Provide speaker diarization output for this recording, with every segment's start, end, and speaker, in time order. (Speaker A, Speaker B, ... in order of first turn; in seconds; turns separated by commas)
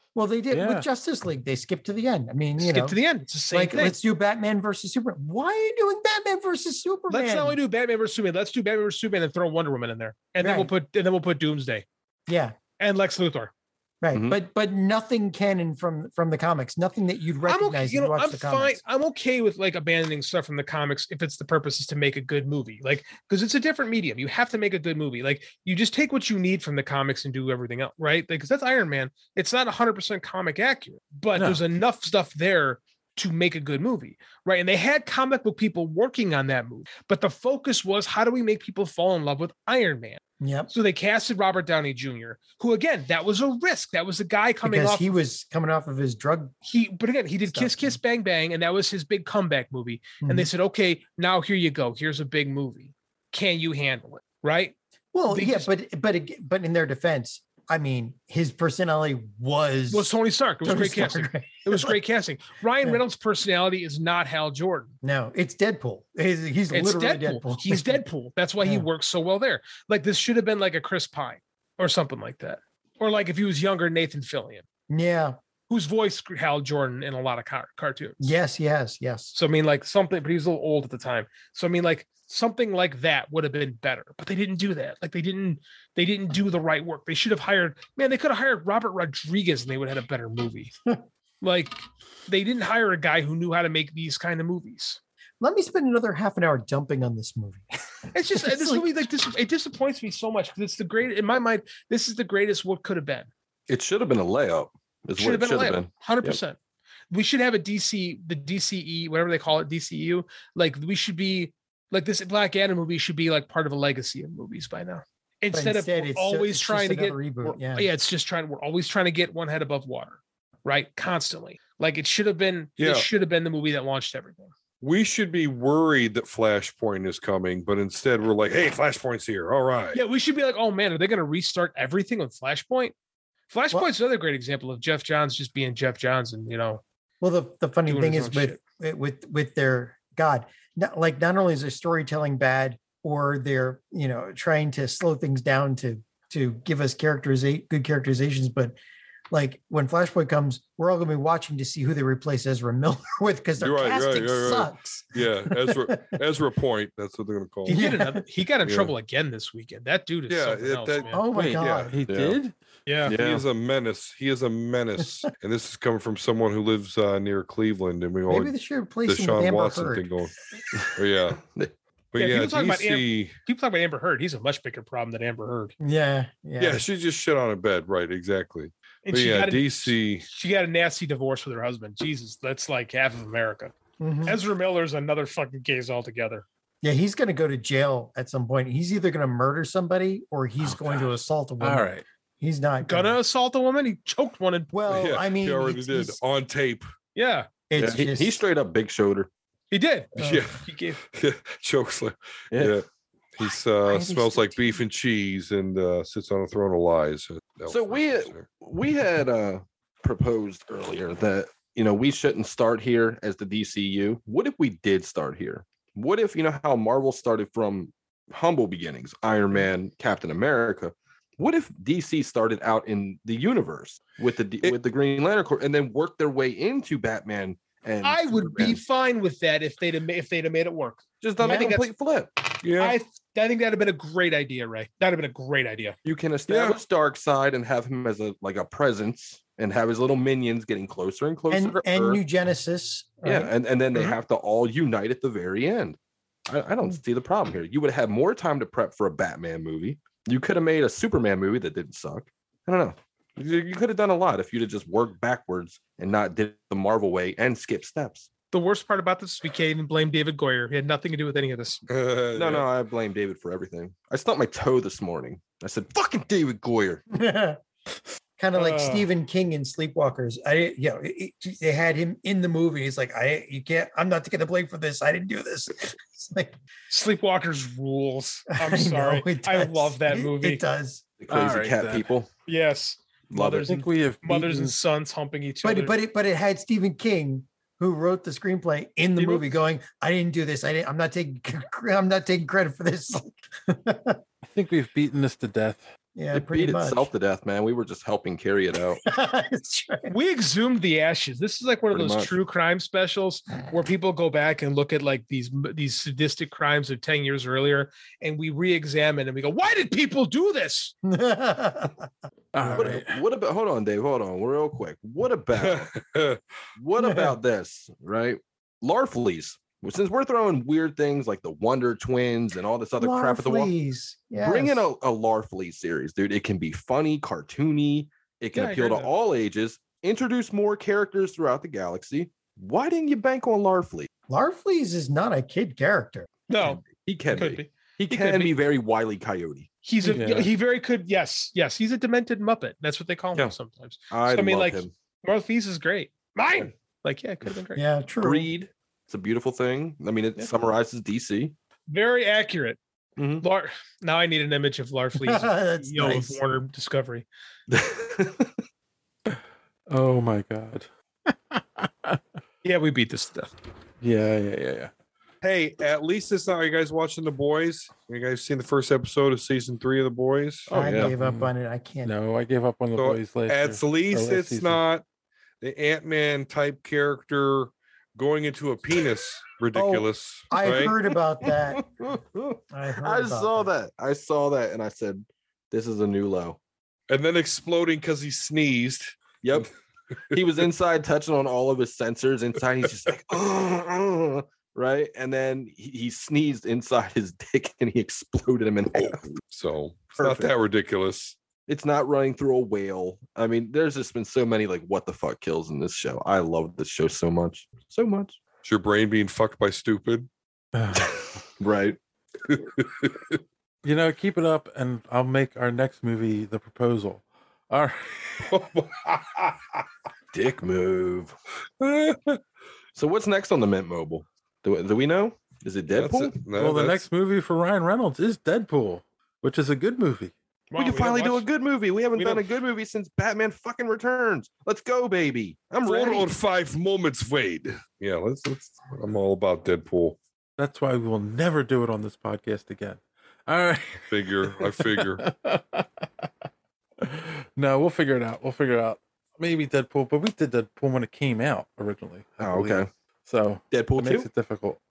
Speaker A: 0.1-3.0, Speaker B: 0.5-0.8, Speaker C: 2.6-4.0, Speaker A: 3.5-7.6, Speaker C: 7.1-11.8, Speaker A: 10.4-10.7, Speaker A: 12.3-12.6, Speaker C: 12.8-13.5, Speaker A: 14.0-18.8, Speaker D: 14.1-14.4, Speaker C: 17.5-45.2, Speaker A: 40.4-40.7, Speaker A: 44.6-46.5, Speaker C: 46.6-54.7, Speaker A: 47.5-48.0, Speaker A: 50.2-50.5, Speaker A: 55.1-60.1, Speaker C: 55.3-55.7, Speaker C: 59.9-64.9, Speaker A: 60.6-62.0, Speaker A: 65.0-68.0, Speaker C: 66.7-74.6, Speaker A: 68.6-68.9, Speaker A: 74.9-75.4, Speaker C: 75.7-78.3, Speaker A: 78.2-79.3, Speaker C: 79.3-90.7, Speaker C: 91.4-95.0, Speaker A: 95.4-97.7, Speaker C: 98.1-103.3, Speaker A: 98.3-98.9, Speaker D: 103.7-106.4, Speaker C: 105.2-106.6, Speaker C: 107.1-124.5, Speaker A: 115.5-117.9, Speaker E: 122.8-123.1, Speaker E: 124.8-130.0, Speaker C: 129.9-132.9, Speaker C: 133.5-136.8, Speaker A: 137.2-148.8, Speaker C: 137.9-138.6, Speaker A: 149.3-156.0, Speaker E: 153.6-157.8, Speaker C: 157.7-161.2, Speaker A: 157.7-158.2, Speaker E: 158.6-158.9, Speaker E: 160.3-162.0, Speaker A: 161.1-161.9, Speaker B: 161.3-162.5, Speaker D: 162.1-162.4, Speaker C: 162.8-163.2, Speaker D: 163.0-163.4, Speaker E: 163.1-168.5, Speaker A: 168.3-170.3, Speaker E: 169.1-170.3, Speaker D: 170.7-171.7, Speaker E: 170.9-171.4, Speaker E: 172.1-173.3, Speaker C: 172.2-175.7, Speaker A: 175.8-176.8, Speaker E: 176.6-180.2, Speaker C: 179.0-183.7, Speaker A: 184.0-184.4, Speaker C: 184.2-186.4, Speaker A: 186.8-193.1, Speaker B: 191.6-192.0, Speaker C: 192.8-194.7, Speaker A: 194.7-196.2, Speaker E: 194.9-196.8, Speaker C: 197.1-197.5, Speaker A: 197.7-198.4, Speaker D: 197.8-199.3, Speaker C: 199.7-201.0, Speaker A: 200.2-200.4, Speaker E: 200.2-202.8, Speaker D: 202.5-202.8, Speaker E: 203.3-208.5, Speaker A: 203.4-204.8, Speaker D: 207.7-228.8, Speaker C: 228.0-231.8, Speaker D: 231.2-232.3, Speaker A: 231.4-231.7, Speaker E: 232.6-233.0, Speaker C: 232.8-235.9, Speaker D: 236.0-242.2, Speaker E: 236.5-236.8, Speaker A: 241.5-243.5, Speaker D: 243.2-258.3, Speaker C: 258.5-261.8, Speaker E: 261.9-262.7, Speaker D: 262.4-267.0, Speaker A: 267.1-267.6, Speaker A: 268.4-276.5, Speaker C: 268.5-269.1, Speaker C: 276.9-280.6, Speaker A: 278.6-281.1, Speaker D: 281.2-282.3, Speaker B: 281.3-282.1, Speaker C: 282.5-286.0, Speaker D: 283.3-283.9, Speaker B: 283.6-284.8, Speaker A: 285.6-294.2, Speaker C: 289.2-289.5, Speaker B: 294.5-295.9, Speaker A: 296.1-297.1, Speaker D: 296.3-299.0, Speaker A: 299.0-300.1, Speaker C: 300.1-310.9, Speaker D: 301.9-302.3, Speaker A: 311.1-312.1, Speaker B: 312.5-313.2, Speaker A: 312.6-313.0, Speaker D: 312.7-315.9, Speaker E: 315.6-316.4, Speaker D: 316.8-323.7, Speaker A: 317.0-317.3, Speaker A: 323.0-324.9, Speaker D: 324.3-334.1, Speaker C: 328.5-329.1, Speaker A: 334.3-336.3, Speaker C: 336.5-338.5, Speaker D: 336.6-339.7, Speaker C: 339.8-347.8, Speaker B: 340.1-340.5, Speaker D: 344.1-344.9, Speaker A: 347.8-348.5, Speaker D: 348.2-351.5, Speaker C: 351.9-352.8, Speaker D: 353.2-353.4, Speaker C: 353.4-357.2, Speaker A: 355.2-356.4, Speaker D: 357.7-358.5, Speaker B: 359.3-362.2, Speaker C: 362.6-363.5, Speaker B: 364.0-364.9, Speaker E: 365.4-371.1, Speaker B: 370.7-371.5, Speaker A: 370.7-372.1, Speaker B: 372.0-374.8, Speaker E: 373.0-375.0, Speaker E: 375.6-380.9, Speaker A: 379.7-381.8, Speaker D: 381.5-386.6, Speaker A: 382.7-383.7, Speaker E: 387.1-389.6, Speaker D: 389.4-389.7, Speaker D: 390.3-399.4, Speaker E: 399.0-401.4, Speaker D: 400.1-400.5, Speaker D: 401.7-408.4, Speaker E: 408.6-410.3, Speaker B: 410.7-411.2, Speaker D: 411.0-412.0, Speaker E: 412.5-413.4, Speaker B: 413.8-418.5, Speaker E: 418.4-419.8, Speaker D: 420.3-421.3, Speaker E: 421.8-422.4, Speaker D: 422.9-426.4, Speaker E: 425.9-427.0, Speaker B: 426.6-430.3, Speaker C: 430.7-431.5, Speaker D: 430.8-436.3, Speaker C: 432.1-432.4, Speaker E: 435.8-440.2, Speaker B: 440.6-446.3, Speaker E: 444.1-445.2, Speaker B: 447.0-454.8, Speaker D: 452.4-452.9, Speaker D: 453.7-454.3